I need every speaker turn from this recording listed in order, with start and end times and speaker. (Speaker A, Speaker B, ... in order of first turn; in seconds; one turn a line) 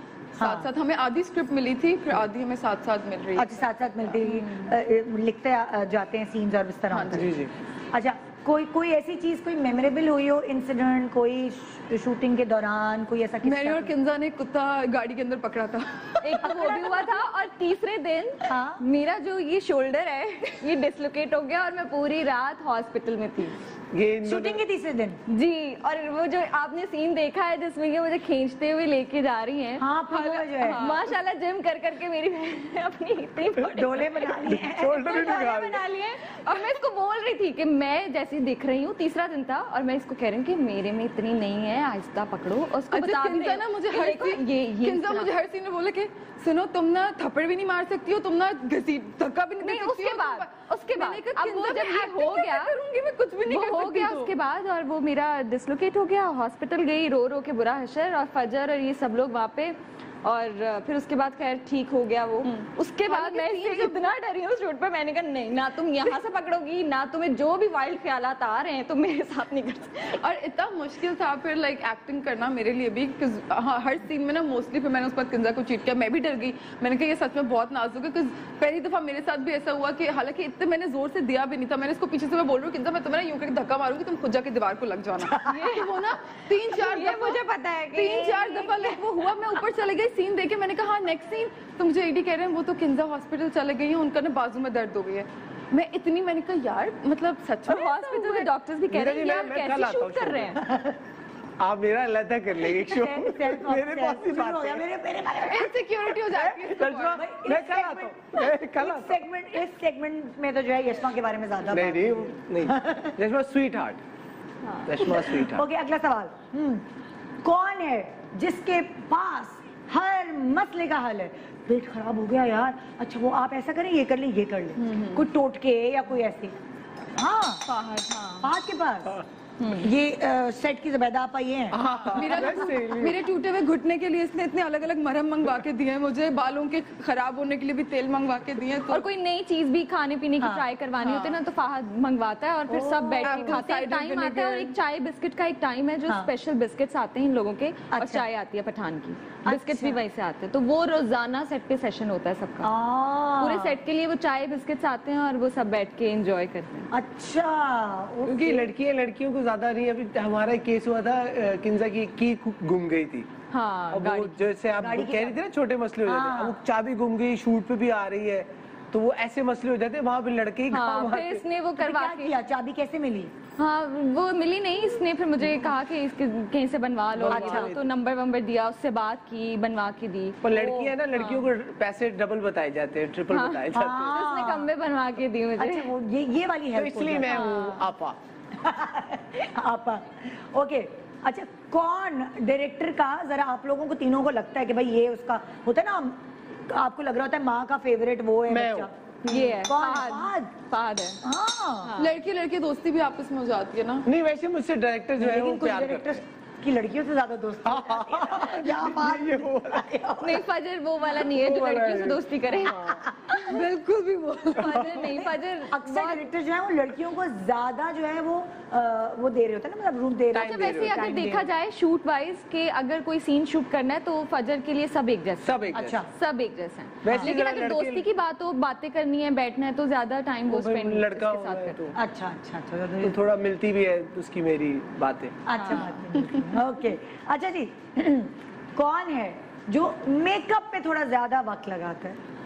Speaker A: 0.4-0.7
Speaker B: 0.4-4.7
Speaker A: 3.4-13.9
Speaker B: 6.9-7.3
Speaker C: 7.1-7.5
Speaker B: 13.4-16.9
Speaker D: 16.2-23.6
Speaker A: 16.5-17.0
Speaker A: 18.5-18.8
Speaker C: 23.9-24.6
Speaker A: 24.2-25.2
Speaker D: 25.3-34.4
Speaker A: 29.8-31.0
Speaker B: 30.7-31.0
Speaker A: 33.6-35.5
Speaker C: 34.4-35.8
Speaker D: 35.0-45.3
Speaker B: 42.9-54.3
Speaker D: 49.6-52.7
Speaker D: 53.5-70.2
Speaker B: 62.5-64.1
Speaker B: 70.1-87.4
Speaker D: 85.4-85.9
Speaker D: 86.7-89.0
Speaker B: 87.9-98.5
Speaker D: 97.7-100.6
Speaker C: 98.9-100.6
Speaker A: 100.6-101.0
Speaker C: 101.6-104.8
Speaker A: 102.8-105.7
Speaker B: 105.5-107.2
Speaker C: 106.1-109.2
Speaker A: 107.2-113.2
Speaker C: 111.7-114.0
Speaker D: 114.6-114.9
Speaker C: 114.8-115.7
Speaker A: 115.0-116.8
Speaker A: 117.4-126.5
Speaker B: 124.8-125.3
Speaker A: 127.2-127.6
Speaker D: 127.8-128.5
Speaker A: 128.4-131.8
Speaker D: 129.6-129.9
Speaker C: 131.7-133.2
Speaker B: 132.1-139.1
Speaker D: 138.9-152.7
Speaker A: 140.4-140.7
Speaker B: 141.0-141.4
Speaker A: 142.7-143.6
Speaker B: 143.2-144.8
Speaker A: 147.9-148.3
Speaker A: 149.4-150.0
Speaker A: 152.6-153.8
Speaker D: 153.4-156.9
Speaker A: 156.9-158.7
Speaker C: 158.3-163.3
Speaker D: 163.5-164.5
Speaker C: 163.9-171.4
Speaker A: 164.8-165.4
Speaker A: 166.1-166.6
Speaker D: 170.7-172.4
Speaker A: 171.8-173.3
Speaker D: 173.6-181.5
Speaker C: 177.1-177.8
Speaker A: 177.3-177.8
Speaker C: 180.4-184.4
Speaker D: 183.3-185.9
Speaker A: 183.7-184.7
Speaker A: 185.6-187.7
Speaker C: 186.7-188.2
Speaker D: 187.3-187.9
Speaker A: 188.6-200.6
Speaker C: 198.5-198.9
Speaker D: 199.2-201.2
Speaker A: 201.2-201.9
Speaker D: 201.8-202.2
Speaker B: 202.0-204.1
Speaker C: 204.1-206.2
Speaker A: 205.2-210.4
Speaker C: 207.7-209.9
Speaker D: 210.2-216.2
Speaker C: 211.1-213.0
Speaker A: 212.8-213.6
Speaker C: 214.6-215.1
Speaker A: 214.6-221.5
Speaker C: 220.3-221.0
Speaker D: 220.3-231.9
Speaker C: 225.4-226.0
Speaker A: 225.7-226.1
Speaker C: 227.0-228.1
Speaker A: 227.1-227.4
Speaker C: 230.5-231.9
Speaker A: 232.0-233.2
Speaker C: 233.0-235.4
Speaker A: 235.5-242.2
Speaker D: 235.6-236.1